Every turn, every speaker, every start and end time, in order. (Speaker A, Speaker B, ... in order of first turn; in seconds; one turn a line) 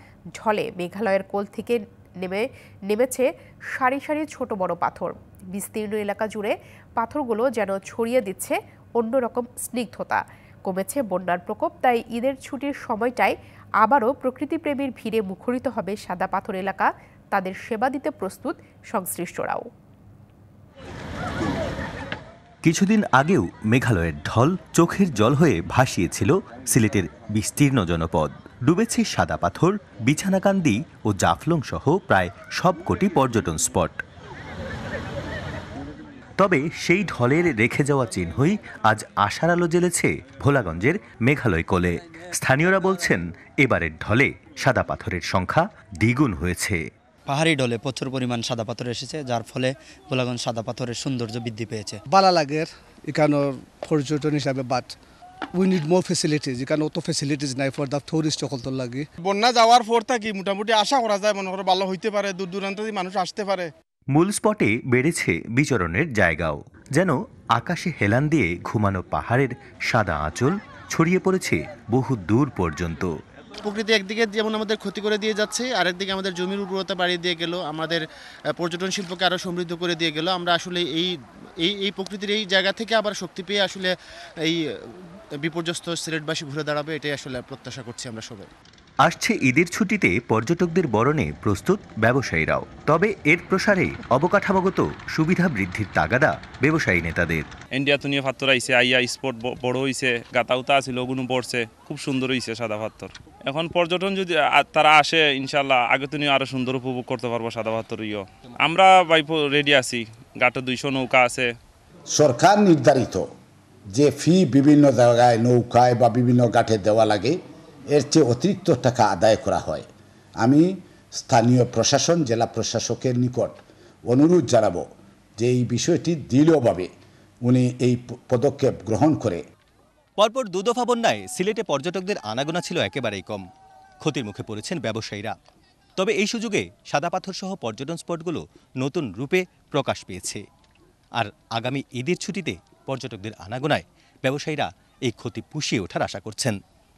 Speaker A: 0.4-19.7
Speaker B: 22.6-34.0
Speaker B: 36.4-46.8
Speaker C: 47.3-52.0
Speaker D: 52.1-54.9
Speaker D: 55.5-59.0
Speaker E: 59.2-63.7
Speaker B: 64.1-73.1
Speaker F: 73.6-78.0
Speaker F: 78.6-81.1
Speaker F: 81.6-83.9
Speaker F: 85.4-88.5
Speaker B: 89.0-97.5
Speaker G: 97.8-111.5
Speaker H: 112.1-113.2
Speaker H: 113.9-117.4
Speaker H: 117.9-119.8
Speaker H: 120.4-123.6
Speaker H: 124.1-124.8
Speaker H: 125.4-126.9
Speaker H: 127.4-129.4
Speaker B: 130.2-133.4
Speaker B: 134.0-135.3
Speaker B: 136.0-140.4
Speaker B: 141.2-146.6